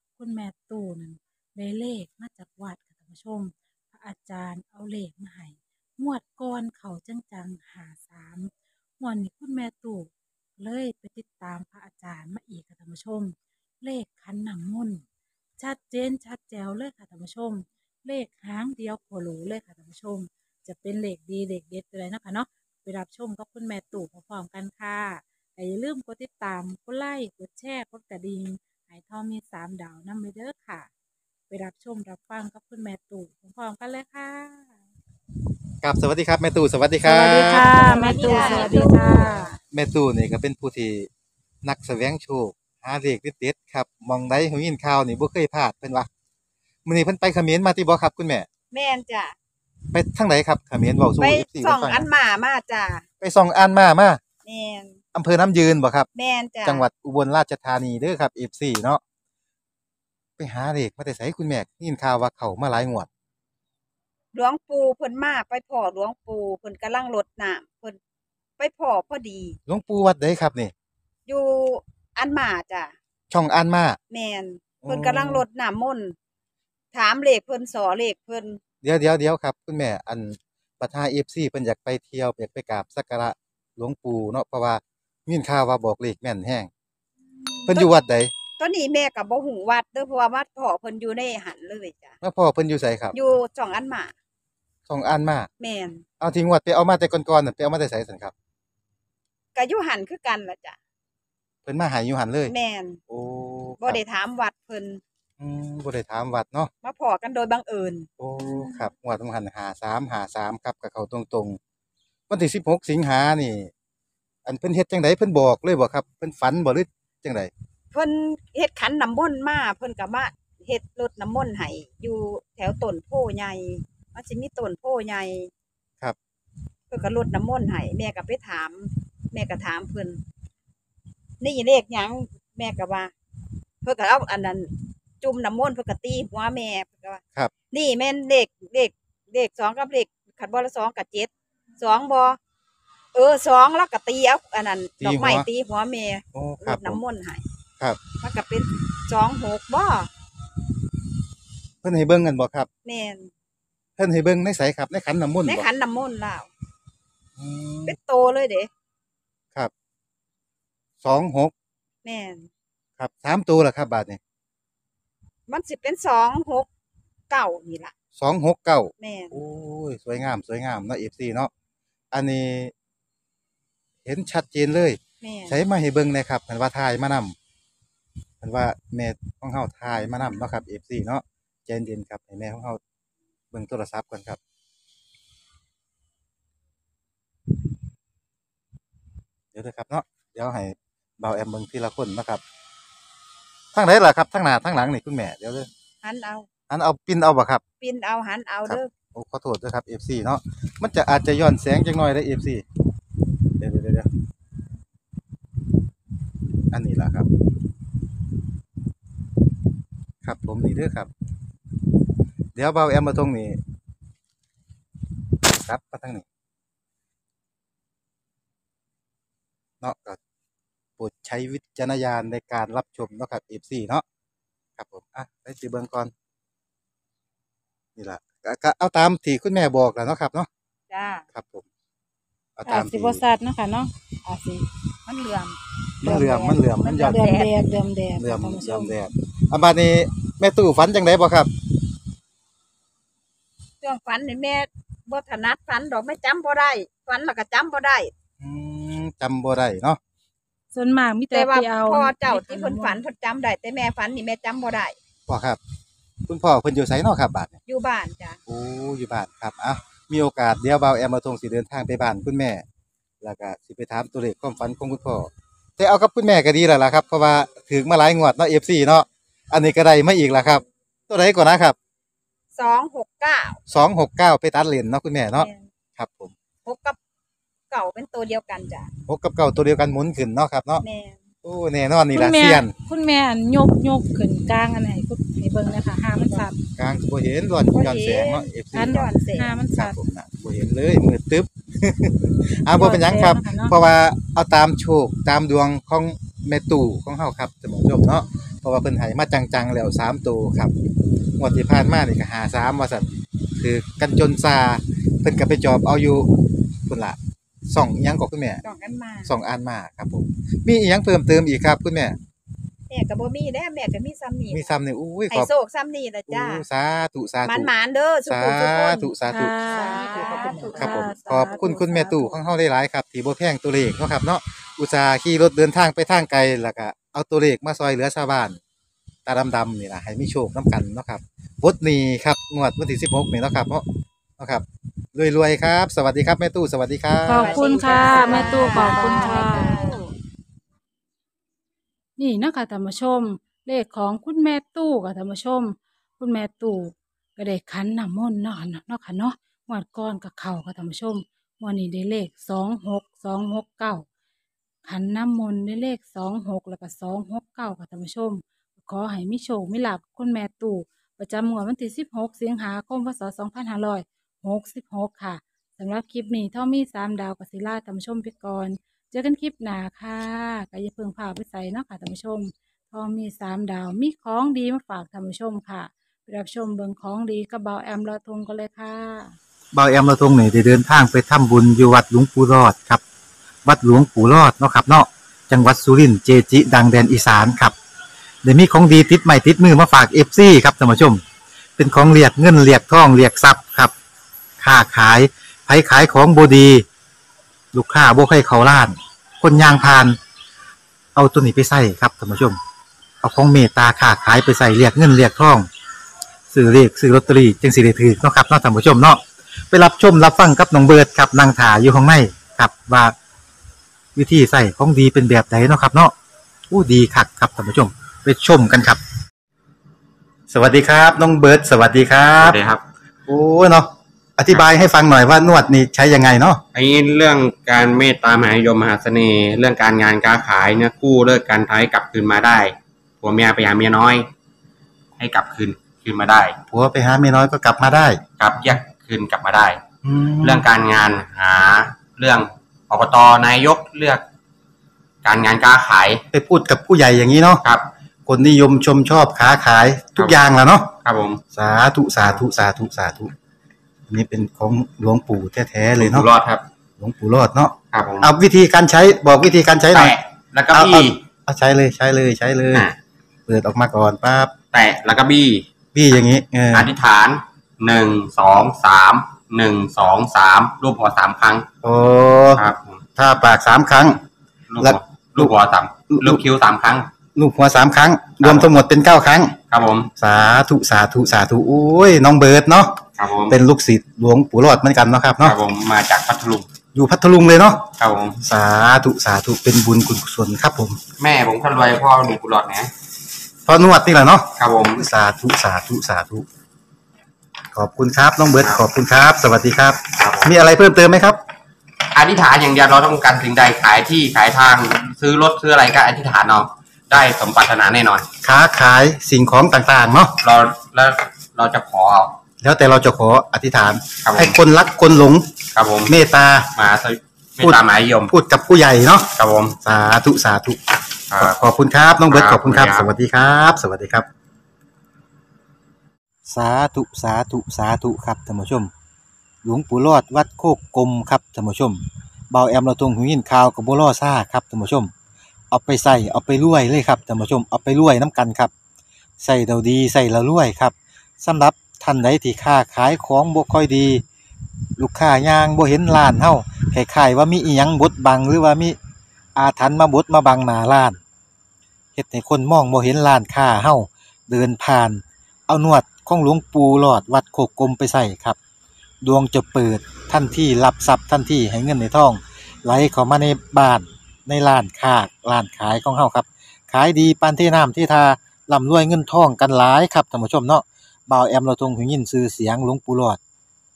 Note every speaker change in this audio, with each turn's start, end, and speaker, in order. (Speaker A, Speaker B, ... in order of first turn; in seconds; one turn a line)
Speaker A: 0.2-15.0
Speaker A: 15.6-30.9
Speaker A: 31.5-34.7
Speaker B: 35.8-38.7
Speaker A: 37.0-39.5
Speaker C: 37.7-39.6
Speaker B: 39.7-41.1
Speaker B: 41.6-46.1
Speaker B: 46.8-48.5
Speaker C: 48.7-49.4
Speaker B: 49.9-52.0
Speaker C: 51.2-53.0
Speaker B: 53.2-54.2
Speaker C: 54.4-55.0
Speaker B: 55.1-56.1
Speaker C: 56.1-56.8
Speaker B: 56.6-59.0
Speaker B: 60.4-63.1
Speaker C: 64.3-68.0
Speaker C: 68.6-69.6
Speaker B: 69.7-70.7
Speaker C: 71.2-72.9
Speaker B: 73.3-74.0
Speaker C: 74.1-76.2
Speaker B: 74.8-75.4
Speaker C: 76.9-78.6
Speaker B: 78.8-86.7
Speaker C: 87.5-87.9
Speaker B: 87.7-88.3
Speaker C: 88.6-92.1
Speaker B: 92.2-93.1
Speaker C: 93.1-94.1
Speaker B: 94.8-95.5
Speaker C: 95.6-96.0
Speaker B: 96.2-98.3
Speaker C: 99.5-100.8
Speaker B: 101.6-102.5
Speaker C: 102.5-103.0
Speaker B: 103.1-104.0
Speaker C: 103.8-105.0
Speaker B: 105.4-106.7
Speaker C: 106.8-108.8
Speaker B: 108.2-111.6
Speaker B: 112.3-113.7
Speaker B: 114.4-117.5
Speaker C: 117.9-125.5
Speaker C: 126.9-130.2
Speaker C: 131.4-133.1
Speaker C: 133.8-142.4
Speaker C: 143.1-147.4
Speaker B: 145.0-145.5
Speaker B: 146.3-147.0
Speaker C: 148.2-150.1
Speaker B: 151.8-152.7
Speaker C: 152.8-153.3
Speaker B: 154.0-155.7
Speaker C: 155.5-156.5
Speaker B: 157.4-157.9
Speaker C: 157.8-158.7
Speaker B: 161.0-161.5
Speaker C: 162.0-162.5
Speaker B: 163.0-164.2
Speaker C: 165.5-166.7
Speaker C: 167.3-167.9
Speaker B: 168.2-171.5
Speaker C: 169.0-169.4
Speaker B: 172.1-172.7
Speaker B: 174.0-177.3
Speaker C: 175.2-175.6
Speaker B: 178.4-182.8
Speaker B: 183.5-184.4
Speaker B: 189.5-192.4
Speaker B: 193.7-195.7
Speaker C: 196.0-196.5
Speaker B: 196.7-197.6
Speaker C: 197.8-198.9
Speaker B: 198.7-202.6
Speaker B: 203.6-204.1
Speaker B: 206.7-207.3
Speaker B: 210.2-211.1
Speaker B: 212.5-213.6
Speaker B: 215.4-216.2
Speaker B: 219.8-220.2
Speaker B: 221.0-224.0
Speaker B: 224.8-226.1
Speaker B: 227.9-230.5
Speaker C: 230.9-231.2
Speaker B: 231.3-231.7
Speaker B: 232.6-233.2
Speaker A: 232.7-234.7
Speaker C: 235.1-237.6
Speaker B: 236.0-237.3
Speaker A: 237.0-238.9
Speaker B: 238.2-241.5
Speaker C: 243.8-248.1
Speaker B: 248.4-250.0
Speaker A: 250.7-253.0
Speaker C: 251.3-255.0
Speaker B: 255.3-255.6
Speaker B: 256.2-257.6
Speaker C: 257.6-258.4
Speaker B: 258.5-262.6
Speaker B: 263.2-271.8
Speaker C: 272.5-273.6
Speaker B: 273.7-276.3
Speaker C: 275.4-275.7
Speaker C: 276.6-277.0
Speaker C: 277.7-278.9
Speaker B: 279.1-280.8
Speaker C: 280.8-281.2
Speaker B: 281.4-282.7
Speaker A: 282.1-286.5
Speaker B: 286.8-289.1
Speaker C: 287.7-289.6
Speaker A: 288.7-289.9
Speaker B: 289.7-300.7
Speaker A: 292.7-293.7
Speaker B: 301.4-306.3
Speaker B: 306.9-307.2
Speaker B: 307.7-308.6
Speaker C: 308.6-309.3
Speaker B: 309.2-312.2
Speaker C: 312.9-314.7
Speaker B: 314.5-315.5
Speaker C: 315.3-316.6
Speaker B: 316.3-317.7
Speaker C: 317.4-319.1
Speaker B: 318.2-328.6
Speaker A: 319.3-322.4
Speaker C: 319.7-321.6
Speaker B: 329.2-333.9
Speaker B: 334.4-334.6
Speaker B: 335.1-338.8
Speaker A: 337.2-340.0
Speaker C: 337.3-340.1
Speaker A: 342.2-354.1
Speaker A: 354.8-379.3
Speaker B: 379.7-383.0
Speaker B: 383.6-387.7
Speaker B: 388.4-391.2
Speaker B: 391.8-393.9
Speaker B: 394.6-396.8
Speaker B: 397.7-400.2
Speaker B: 401.1-402.6
Speaker B: 403.2-405.7
Speaker B: 406.5-413.1
Speaker B: 414.1-416.1
Speaker B: 416.7-419.0
Speaker B: 420.5-422.6
Speaker D: 422.4-422.8
Speaker B: 423.3-426.6
Speaker D: 426.7-434.3
Speaker D: 435.2-436.6
Speaker B: 436.7-438.2
Speaker D: 438.4-439.8
Speaker B: 440.0-440.6
Speaker D: 440.4-444.2
Speaker D: 445.2-446.2
Speaker B: 446.3-447.6
Speaker B: 448.3-450.9
Speaker D: 451.0-451.4
Speaker B: 451.5-453.3
Speaker B: 454.1-456.3
Speaker D: 456.0-456.6
Speaker B: 457.0-460.1
Speaker D: 457.9-458.3
Speaker D: 459.9-461.2
Speaker B: 460.7-462.9
Speaker B: 463.5-464.5
Speaker D: 464.7-465.6
Speaker B: 465.9-466.9
Speaker D: 466.7-471.6
Speaker B: 471.8-472.6
Speaker D: 472.6-473.0
Speaker B: 473.1-474.2
Speaker D: 474.7-477.1
Speaker B: 474.8-475.5
Speaker B: 476.1-476.4
Speaker B: 477.3-479.6
Speaker D: 478.4-478.7
Speaker D: 479.7-480.1
Speaker B: 480.1-483.0
Speaker D: 483.2-483.6
Speaker B: 483.5-485.6
Speaker D: 485.4-486.7
Speaker B: 486.9-487.9
Speaker D: 488.0-488.4
Speaker B: 488.4-491.0
Speaker D: 491.2-492.9
Speaker B: 493.6-496.4
Speaker D: 494.6-495.1
Speaker B: 497.7-501.4
Speaker D: 500.2-500.5
Speaker D: 502.1-508.2
Speaker B: 508.4-510.3
Speaker D: 510.4-512.4
Speaker B: 512.6-515.5
Speaker D: 514.2-514.5
Speaker D: 515.7-516.1
Speaker B: 516.0-516.7
Speaker D: 516.7-518.3
Speaker B: 517.6-519.3
Speaker D: 519.3-519.8
Speaker B: 519.8-520.8
Speaker D: 521.3-521.6
Speaker B: 521.4-524.3
Speaker D: 522.3-523.1
Speaker B: 526.5-528.9
Speaker B: 529.6-535.1
Speaker B: 535.7-538.7
Speaker B: 539.4-544.2
Speaker B: 545.0-549.0
Speaker B: 549.5-551.2
Speaker B: 552.1-558.6
Speaker B: 559.2-573.4